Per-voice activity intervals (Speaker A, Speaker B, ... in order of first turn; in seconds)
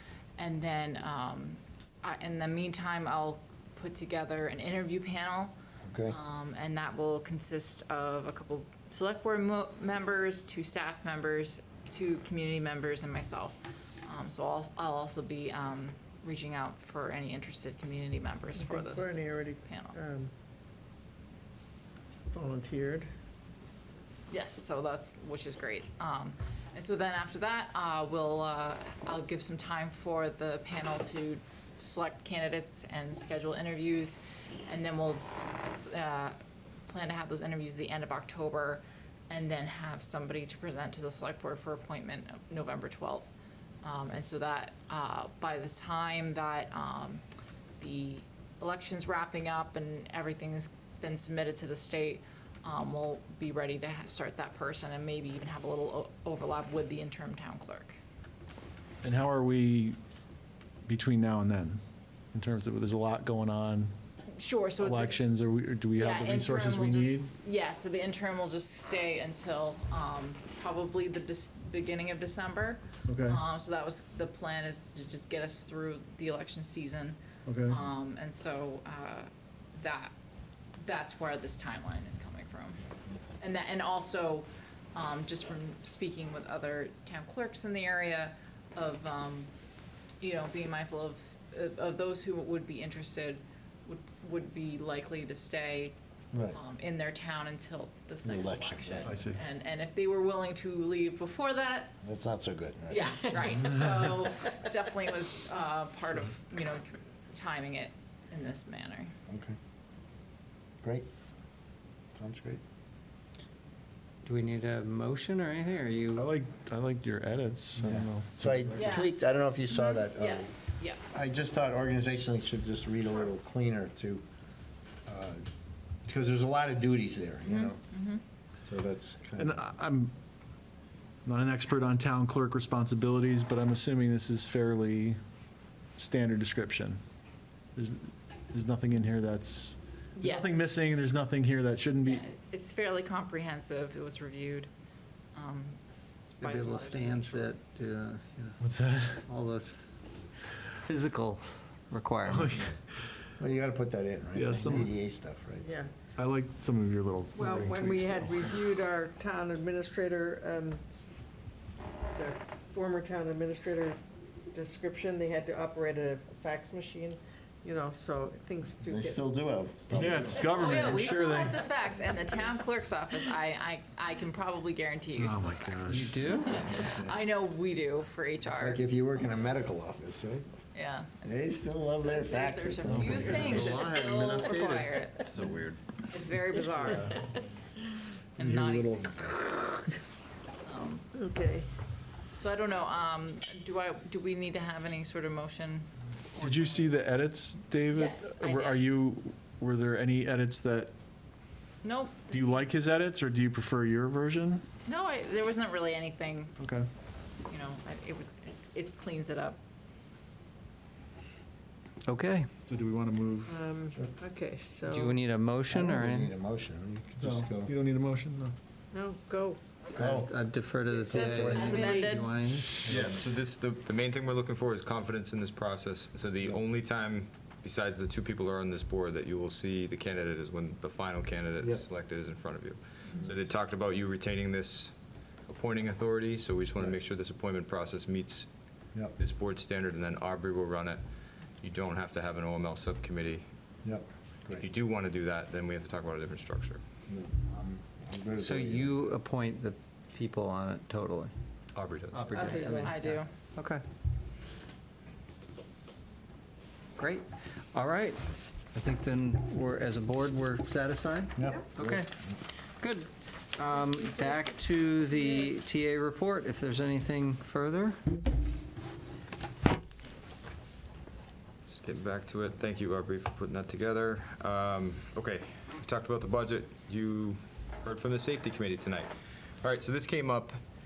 Speaker A: 0.4-5.5, 6.1-20.0, 24.3-43.3, 43.8-47.2, 47.8-58.0, 64.4-65.2, 66.0-80.1, 80.8-82.8, 83.4-89.5, 90.2-96.0, 96.5-102.0, 102.9-109.1, 118.8-119.2, 119.7-121.0, 127.5-128.2, 140.2-140.7, 142.0-144.7, 145.3-147.5, 170.2-179.6, 180.7-185.3, 186.1-187.2, 188.4-189.3, 190.7-191.1, 192.3-195.9, 197.9-198.8, 201.8-202.7, 204.9-206.6, 207.5-209.6, 221.5-222.3, 252.5-253.3
Speaker B: 5.9-6.2, 96.3-96.6, 98.2-99.1, 102.0-103.3, 109.3-109.6, 112.2-112.6, 117.8-120.6, 121.1-124.2, 125.1-125.4, 126.0-127.8, 128.7-129.6, 153.4-155.8, 168.8-170.9, 176.6-177.2, 178.5-180.4, 181.2-183.6, 215.7-217.7, 220.0-220.3, 221.1-222.0, 222.9-223.1, 231.6-231.8, 243.8-244.7, 247.1-249.0, 261.4-262.1
Speaker C: 18.6-20.3, 22.3-23.1, 155.6-155.9, 157.3-160.8, 162.1-164.0, 164.5-169.2, 186.9-187.4, 191.2-191.7, 213.5-215.2, 218.9-219.6, 221.0-222.2, 252.3-252.9, 263.9-264.5, 265.2-265.5
Speaker D: 59.0-60.0, 60.9-61.8, 62.3-63.9, 64.8-67.3, 73.1-73.4, 77.5-77.8, 99.0-99.4, 116.1-118.9, 129.4-130.1, 131.2-135.2, 136.0-137.0, 137.8-142.2, 148.6-149.2, 152.3-153.1, 154.4-154.9, 156.2-158.6, 169.9-171.6, 175.2-176.2, 182.9-183.7, 188.4-189.2, 196.4-200.9, 202.3-204.6, 206.6-206.9, 212.7-213.6, 217.2-218.6
Speaker E: 114.2-116.3, 146.4-148.6, 149.3-149.8, 150.8-152.7, 175.9-176.6, 183.5-185.1, 212.1-212.5, 214.9-216.3, 220.0-222.8, 248.4-251.3, 252.1-253.8, 257.0-258.2, 258.8-262.1, 262.8-268.0
Speaker F: 185.2-185.8, 222.9-234.9, 235.5-238.5, 239.2-241.0, 241.6-243.4, 244.5-246.8, 251.7-252.8, 271.7-279.1, 279.6-280.6